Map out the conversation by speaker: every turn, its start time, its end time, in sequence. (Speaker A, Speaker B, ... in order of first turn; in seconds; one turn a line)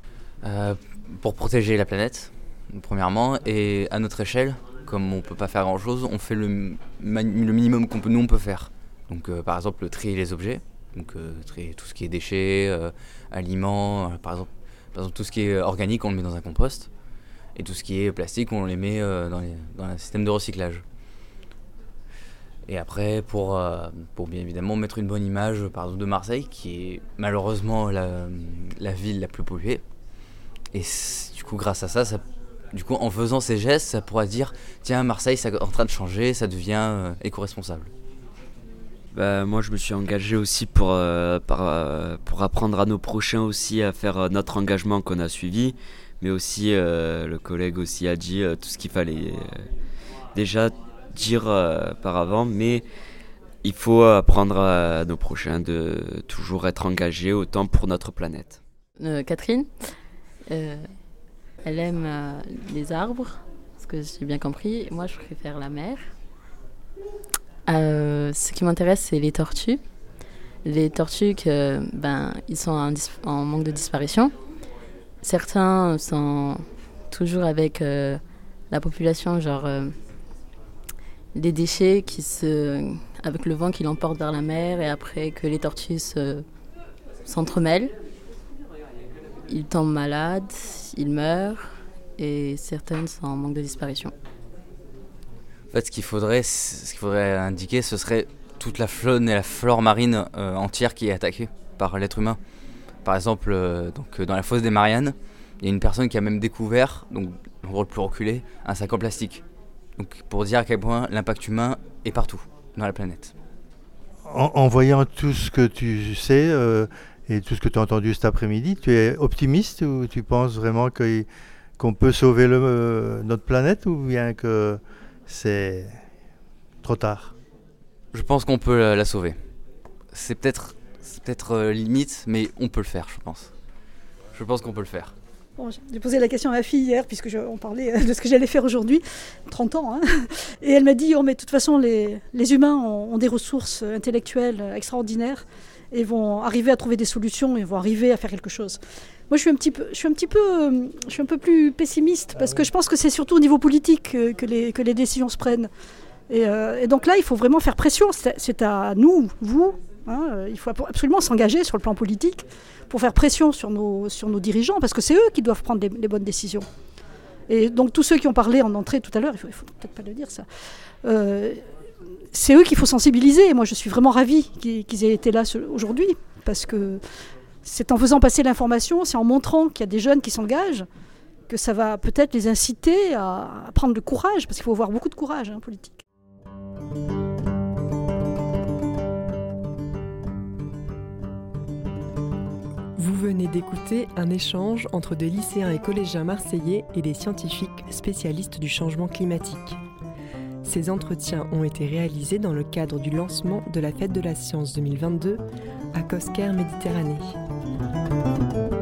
Speaker A: 0.4-16.9
Speaker A: 17.6-20.8
Speaker A: 22.7-29.8
Speaker A: 30.7-37.9
Speaker B: 39.1-49.7
Speaker B: 50.3-52.8
Speaker B: 53.6-58.6
Speaker C: 59.0-59.9
Speaker C: 60.5-60.9
Speaker C: 61.6-66.1
Speaker C: 67.7-69.8
Speaker C: 70.6-74.3
Speaker C: 75.2-79.9
Speaker C: 81.3-86.4
Speaker C: 87.2-87.9
Speaker C: 89.5-94.1
Speaker A: 95.7-102.4
Speaker A: 103.0-109.4
Speaker A: 110.0-113.3
Speaker D: 114.2-121.3
Speaker D: 121.8-125.9
Speaker D: 126.8-127.3
Speaker A: 128.1-129.3
Speaker A: 130.1-133.5
Speaker A: 134.3-135.1
Speaker E: 135.6-155.7
Speaker E: 156.3-166.7
Speaker E: 167.5-170.4
Speaker E: 171.0-171.7
Speaker E: 172.3-177.0
Speaker E: 177.6-180.9
Speaker E: 181.5-186.0
Speaker F: 192.9-199.8
Speaker F: 200.6-205.4
Speaker F: 205.9-207.3